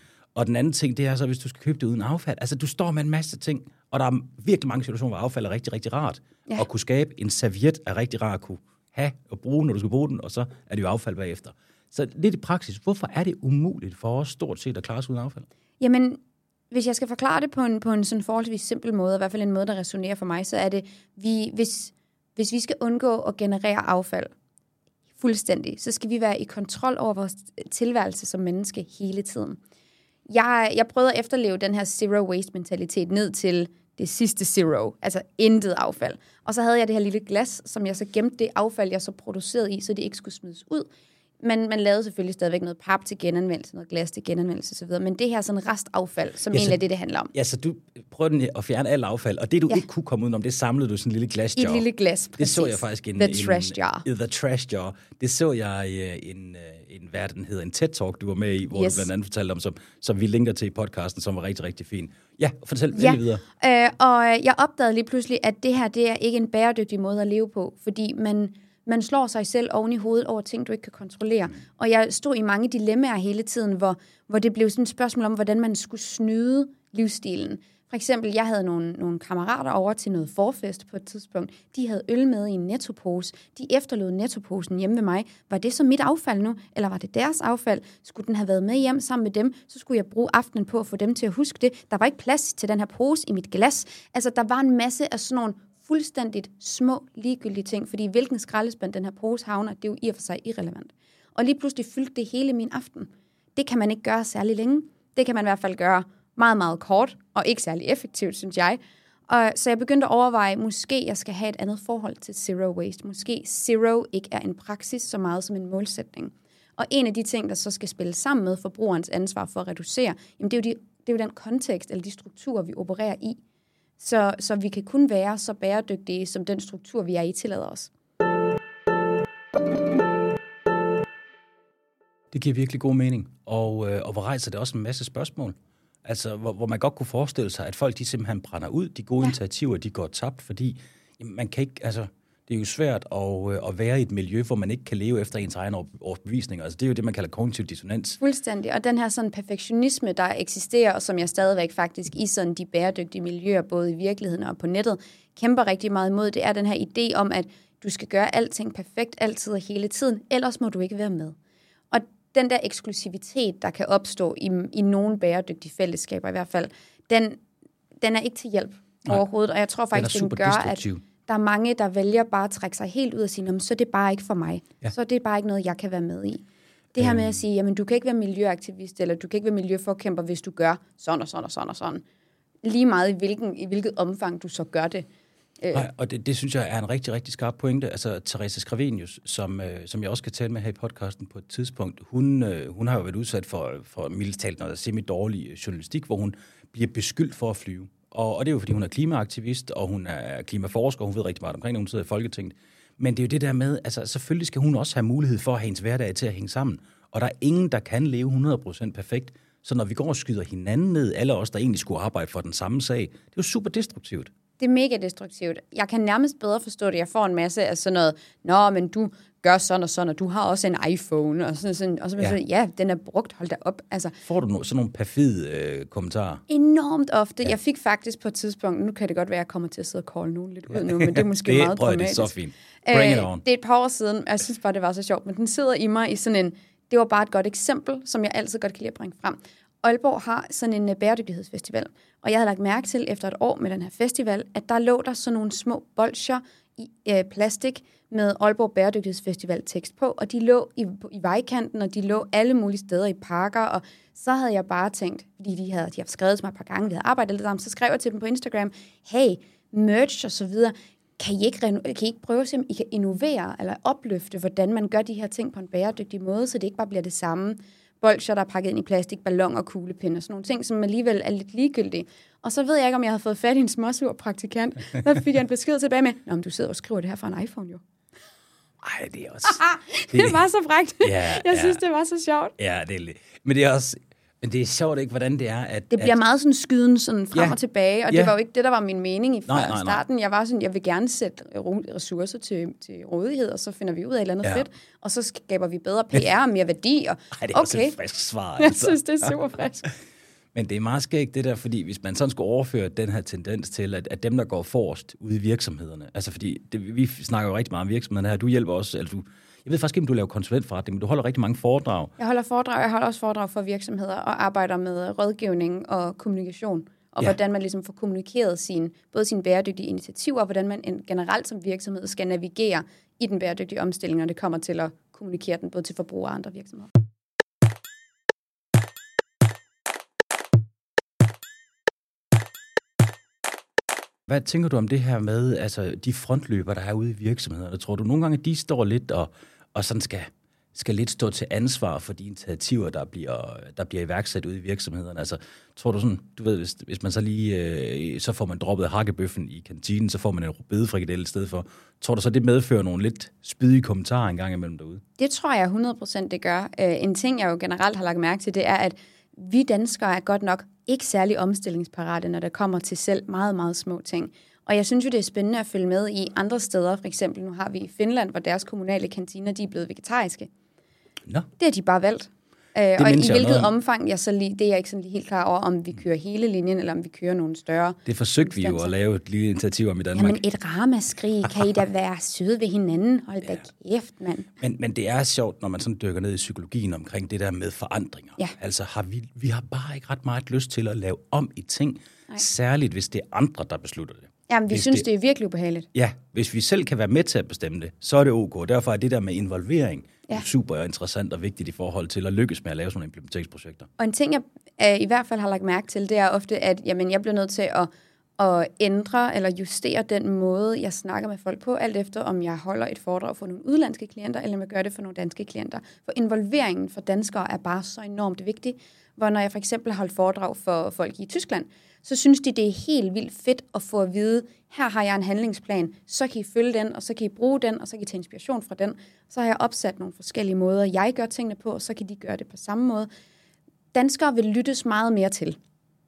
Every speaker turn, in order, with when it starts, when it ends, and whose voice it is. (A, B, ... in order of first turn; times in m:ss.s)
0:00.3-0:15.4 A
0:15.8-0:16.2 B
0:16.7-0:24.3 B
0:25.2-0:29.6 B
0:30.3-0:40.9 B
0:41.4-0:47.3 B
0:46.5-0:46.8 A
0:47.3-1:03.4 A
0:51.6-0:54.0 B
0:58.7-0:59.1 B
1:02.9-2:03.4 B
2:04.0-2:07.9 B
2:12.3-2:28.2 A
2:28.2-2:41.4 B
2:41.9-2:47.4 B
2:48.0-2:56.4 B
2:49.9-2:51.0 A
2:57.0-3:02.0 B
2:57.0-2:57.4 A
3:02.6-3:05.0 B
3:05.6-3:05.9 B
3:05.7-3:34.3 A
3:34.6-3:44.2 B
3:44.2-3:46.4 A
3:46.5-3:52.3 B
3:50.7-3:53.4 A
3:52.8-4:37.8 B
4:38.8-4:40.4 A
4:39.4-4:42.5 B
4:41.0-4:41.8 A
4:42.6-4:46.2 A
4:45.9-4:58.0 B
4:49.5-4:50.0 A
4:57.3-4:59.4 A
4:58.6-4:59.9 B
5:00.5-5:12.1 A
5:12.2-5:26.9 B
5:34.3-5:55.0 A
5:55.2-6:10.5 B
6:11.6-6:18.9 B
6:13.0-6:13.7 A
6:18.0-6:20.4 A
6:20.1-6:24.5 B
6:24.6-6:35.0 A
6:34.5-6:35.9 B
6:35.9-6:43.9 A
6:44.0-7:13.1 B
7:13.9-7:15.6 B